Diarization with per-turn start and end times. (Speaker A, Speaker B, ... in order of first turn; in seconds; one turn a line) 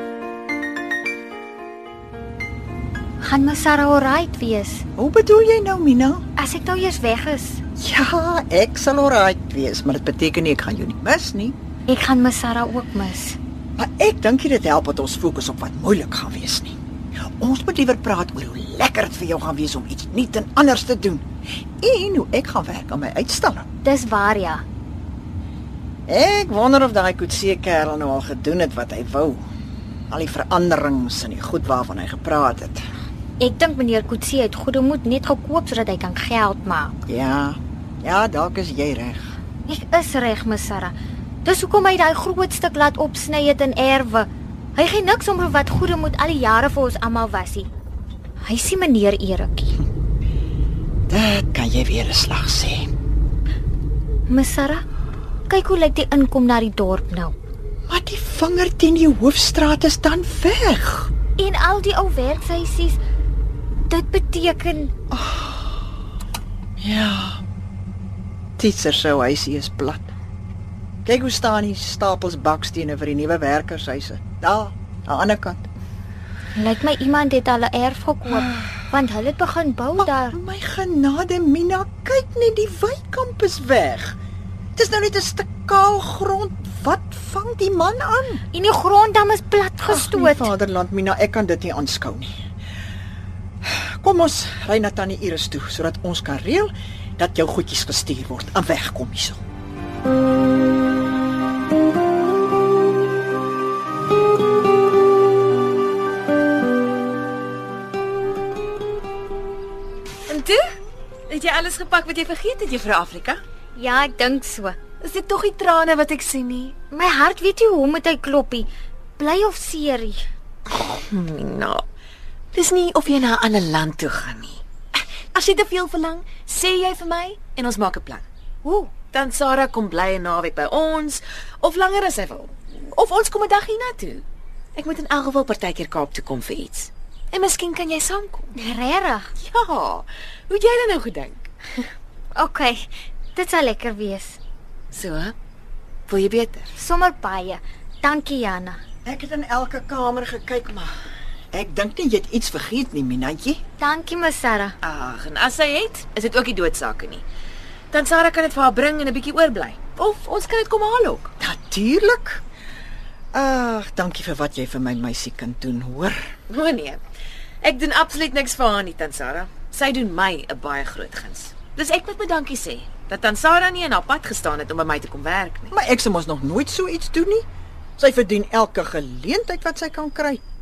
Speaker A: 3.2-4.8
Speaker B: 5.0-6.2
Speaker A: 6.4-7.6
Speaker B: 7.8-11.6
Speaker A: 11.9-13.4
Speaker B: 13.8-16.8
Speaker B: 17.4-21.3
Speaker B: 21.8-23.7
Speaker A: 23.8-24.6
Speaker B: 26.1-29.4
Speaker B: 30.1-32.8
Speaker A: 33.4-37.0
Speaker B: 37.1-39.3
Speaker A: 39.7-47.7
Speaker A: 48.4-49.8
Speaker B: 51.1-52.9
Speaker A: 54.3-54.8
Speaker A: 55.5-57.4
Speaker B: 57.9-61.1
Speaker A: 61.4-63.0
Speaker A: 63.9-64.9
Speaker B: 65.1-65.7
Speaker B: 66.8-67.4
Speaker B: 68.6-70.1
Speaker B: 71.0-75.7
Speaker A: 76.5-80.4
Speaker B: 78.3-78.7
Speaker B: 80.0-84.2
Speaker B: 84.8-88.4
Speaker A: 88.5-90.5
Speaker B: 89.9-92.3
Speaker B: 93.6-99.4
Speaker C: 110.3-110.6
Speaker C: 111.3-113.4
Speaker A: 113.8-114.8
Speaker C: 115.0-116.8
Speaker A: 116.9-120.2
Speaker C: 120.7-121.8
Speaker C: 122.5-124.6
Speaker C: 125.3-128.3
Speaker A: 128.6-128.9
Speaker C: 129.1-134.2
Speaker C: 134.8-138.6
Speaker A: 138.6-139.3
Speaker C: 139.4-141.5
Speaker A: 142.3-144.4
Speaker C: 144.9-145.3
Speaker C: 146.1-146.8
Speaker A: 146.8-148.8
Speaker B: 149.1-150.9
Speaker B: 151.5-153.6
Speaker A: 153.8-154.7
Speaker C: 154.8-157.2
Speaker C: 157.9-161.3
Speaker B: 161.4-162.4
Speaker B: 163.3-166.2
Speaker C: 166.5-167.0
Speaker C: 167.6-175.7
Speaker B: 175.7-177.5
Speaker B: 178.0-180.4